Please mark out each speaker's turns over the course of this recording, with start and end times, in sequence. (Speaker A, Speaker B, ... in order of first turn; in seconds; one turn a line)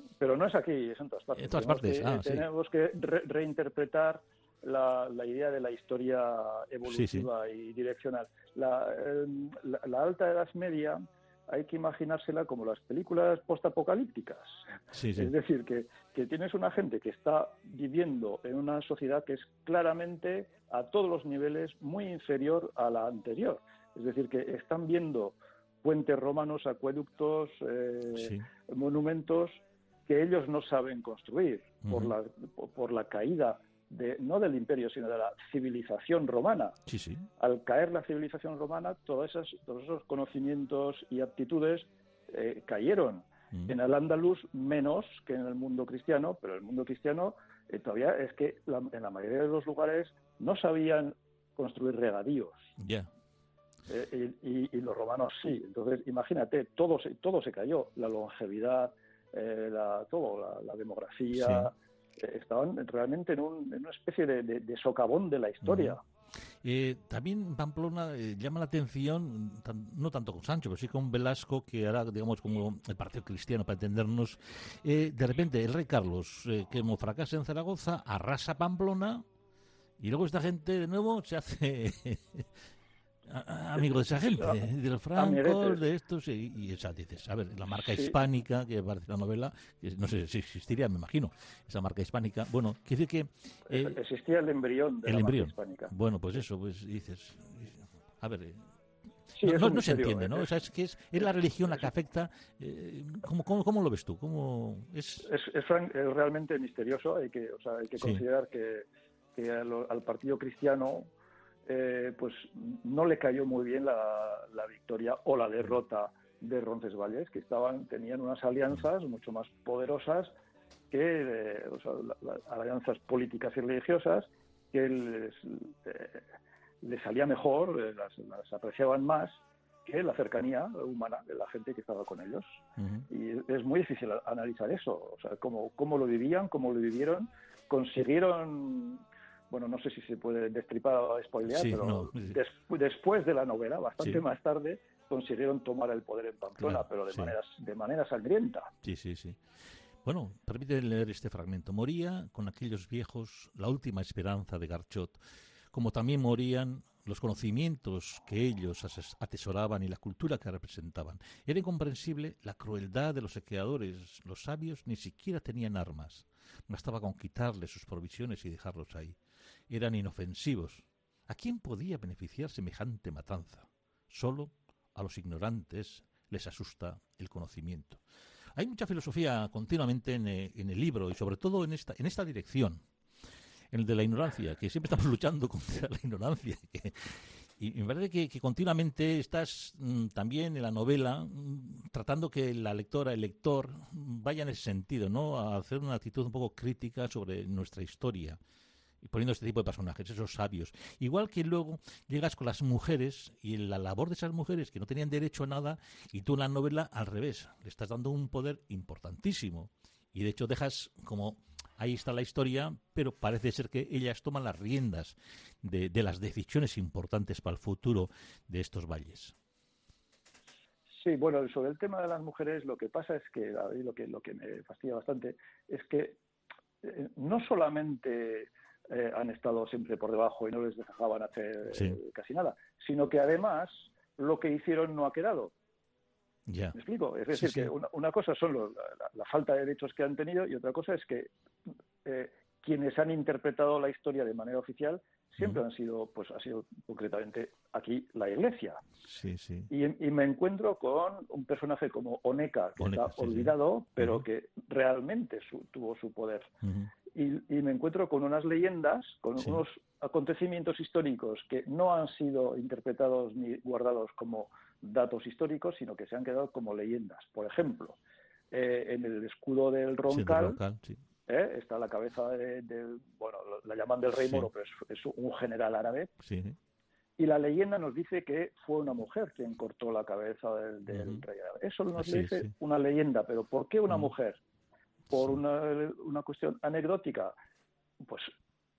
Speaker A: 0.2-36.8
Speaker B: 1.4-2.5
Speaker B: 6.9-7.3
Speaker B: 14.9-15.3
Speaker B: 28.2-28.5
Speaker B: 31.9-32.1
Speaker B: 36.9-37.2
Speaker A: 37.4-52.7
Speaker B: 52.8-53.1
Speaker A: 53.9-66.0
Speaker B: 61.4-61.7
Speaker B: 65.6-66.0
Speaker B: 66.6-79.2
Speaker B: 80.0-82.5
Speaker B: 83.3-94.0
Speaker A: 84.2-84.6
Speaker A: 85.2-85.8
Speaker A: 87.9-88.2
Speaker A: 93.7-95.9
Speaker B: 95.1-98.6
Speaker A: 99.3-100.5
Speaker B: 99.4-105.3
Speaker A: 105.2-111.1
Speaker A: 111.7-120.3
Speaker A: 120.9-126.2
Speaker A: 126.8-132.6
Speaker B: 132.8-133.1
Speaker A: 133.1-148.7
Speaker B: 141.5-142.4
Speaker B: 146.6-147.3
Speaker B: 148.8-149.4
Speaker B: 150.0-155.2
Speaker B: 155.7-169.2
Speaker B: 169.7-178.0
Speaker B: 178.6-182.8
Speaker B: 183.7-198.4
Speaker B: 199.0-219.3
Speaker A: 221.0-226.2
Speaker A: 226.8-235.5
Speaker B: 236.5-236.8
Speaker A: 236.7-248.8
Speaker B: 237.3-237.7
Speaker B: 249.1-249.7
Speaker A: 249.7-256.5
Speaker B: 252.8-254.2
Speaker B: 256.6-256.9
Speaker A: 257.1-268.0
Speaker A: 268.5-270.6
Speaker B: 270.1-271.0
Speaker A: 271.3-276.1
Speaker B: 276.2-276.6
Speaker A: 277.2-284.4
Speaker B: 280.9-281.2
Speaker B: 282.0-282.5
Speaker A: 285.1-287.3
Speaker A: 288.0-288.3